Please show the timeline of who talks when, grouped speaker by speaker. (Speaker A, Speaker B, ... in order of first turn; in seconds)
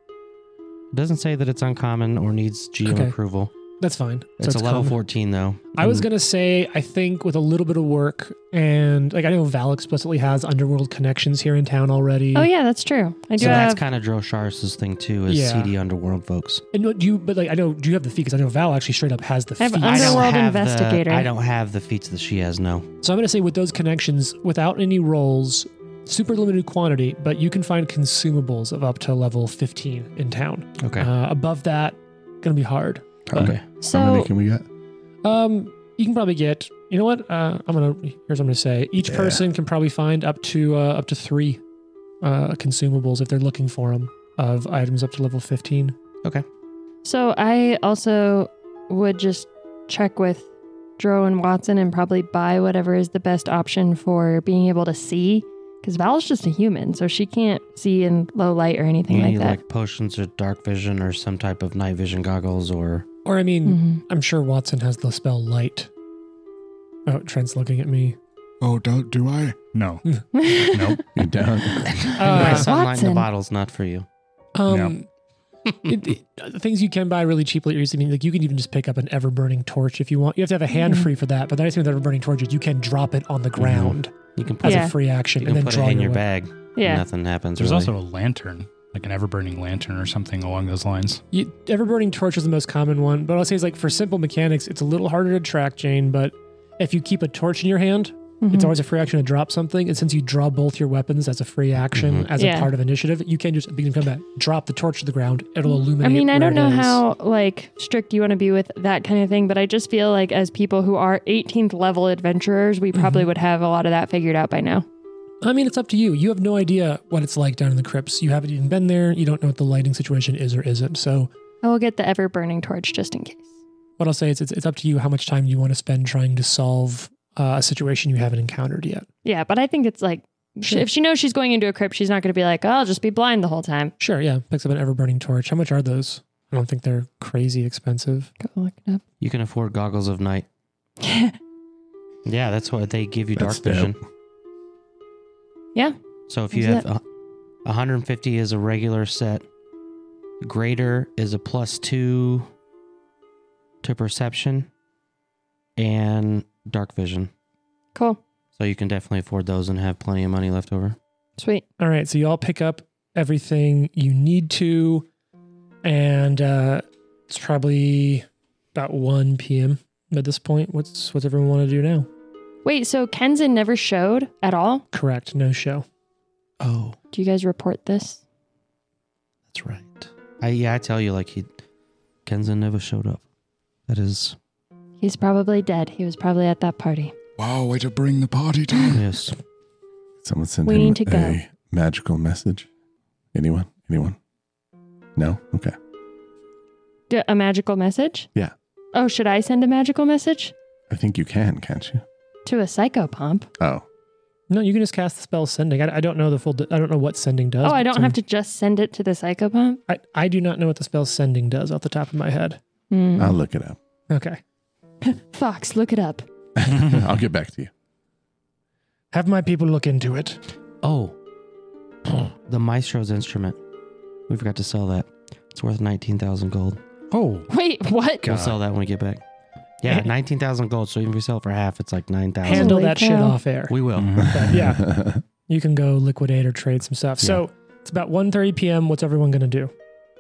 Speaker A: 0.9-3.5, 4.4-6.1, 13.4-16.6, 19.8-22.9, 30.8-31.1, 33.4-33.6, 59.1-63.1, 71.9-74.1, 83.6-87.9, 102.0-102.3, 139.2-140.5, 142.2-144.0, 146.3-147.0, 147.7-149.4, 150.4-152.5, 153.8-154.7, 155.8-157.3, 158.6-161.0, 176.6-177.0, 179.5-181.5, 182.3-183.2, 183.9-184.4, 188.9-189.4, 220.8-221.2, 222.5-223.6, 224.3-226.8, 228.2-229.2, 229.8-232.8, 233.7-234.2
Speaker B: 2.9-3.1, 3.8-5.0, 5.8-12.5, 13.4-13.7, 15.3-15.7, 16.7-20.3, 23.0-33.4, 35.2-41.6, 42.2-46.0, 63.2-65.9, 67.1-68.2, 72.2-72.7, 74.5-75.1, 75.8-86.2, 91.3-107.0, 113.0-113.2, 115.4-121.3, 124.0-129.1, 134.0-138.3, 161.8-165.1, 165.8-172.1, 174.9-175.8, 204.5-208.2, 209.9-212.6, 214.1-214.4, 219.1-220.4, 232.4-239.7
Speaker C: 12.3-13.8, 19.6-21.3, 33.8-34.3, 47.0-59.6, 63.6-64.0, 70.3-71.0, 72.0-73.3, 80.7-81.1, 84.6-84.9, 86.8-87.0, 98.4-98.7, 102.4-102.7, 106.0-114.9, 121.6-123.5, 129.2-133.9, 138.4-139.0, 141.0-141.4, 146.5-146.8, 157.9-158.2, 161.4-161.6, 172.7-174.8, 177.1-178.2, 185.0-187.2, 190.7-191.4, 197.1-198.3, 198.9-200.5, 202.5-203.5, 207.6-209.8, 212.9-213.4, 215.0-216.3, 227.5-228.3, 232.5-233.4
Speaker D: 33.3-34.6, 39.0-39.4, 71.2-72.0, 143.4-143.9, 190.2-192.7, 193.3-194.2, 195.2-195.7, 200.9-202.0, 203.6-203.8, 213.2-213.8, 216.6-217.7, 234.8-235.2
Speaker E: 68.6-69.7, 187.4-189.1
Speaker F: 69.7-70.0, 70.6-71.1, 74.7-75.0, 87.6-91.2, 227.1-227.5, 228.2-228.6, 234.0-234.8